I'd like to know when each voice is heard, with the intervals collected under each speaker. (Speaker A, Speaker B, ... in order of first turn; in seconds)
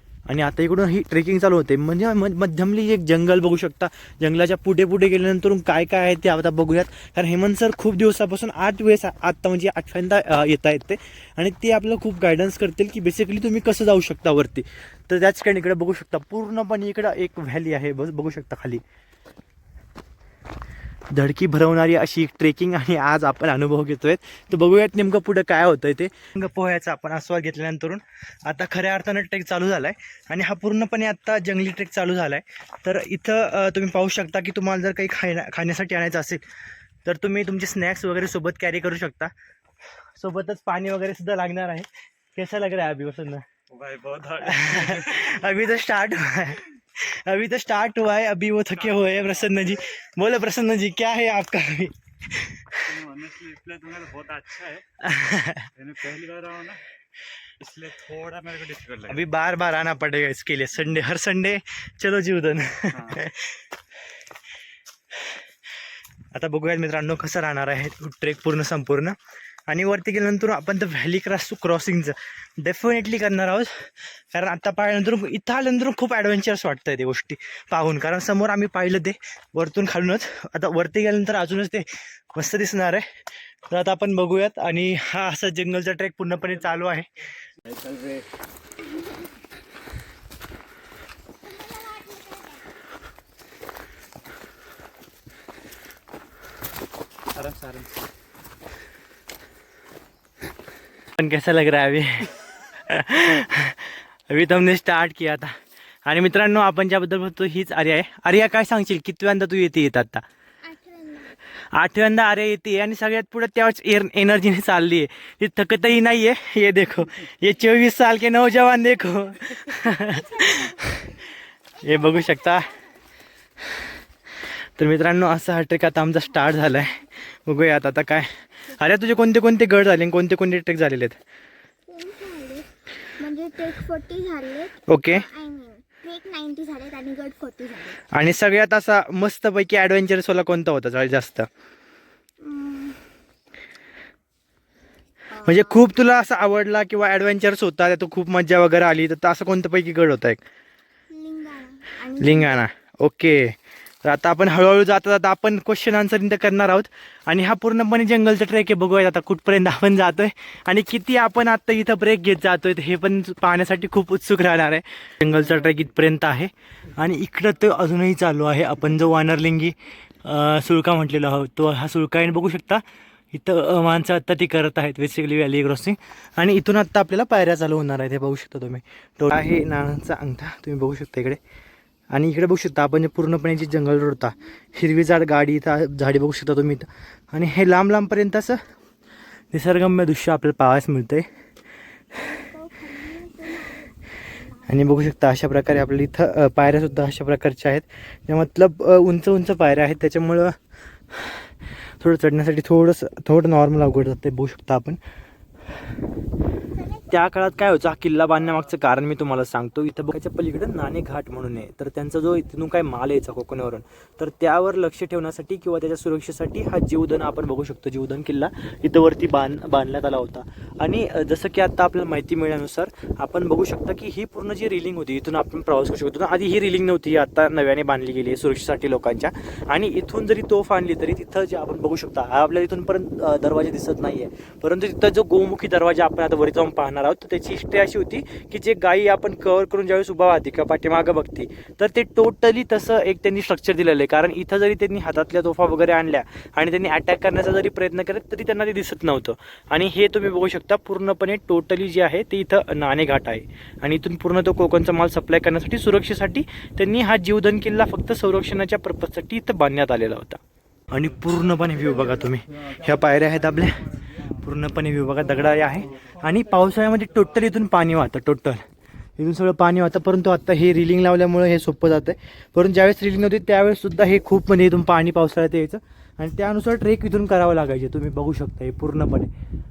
Speaker A: 0.3-18.8, 21.1-36.4, 37.0-39.3, 40.2-43.4, 44.4-52.9, 55.0-55.7, 59.1-63.6, 66.3-69.2, 69.7-83.0, 83.7-87.1, 101.2-102.3, 102.9-105.5, 106.1-110.2, 111.7-121.2, 121.8-122.8, 124.8-131.2, 134.9-135.3, 138.1-141.5, 145.4-150.4, 152.2-181.4, 182.1-188.6, 189.5-191.2, 192.2-192.6, 194.7-200.6, 201.1-201.5, 202.0-205.0, 206.9-260.4, 260.9-263.9, 264.4-268.6, 269.2-279.3
Speaker B: 43.7-45.1, 52.9-54.8, 55.8-56.8, 57.6-59.2, 62.9-63.2, 97.4-97.9
Speaker C: 91.5-92.4, 110.6-111.3, 131.9-138.0, 142.4-143.0, 145.3-145.7, 151.1-152.6, 192.5-194.5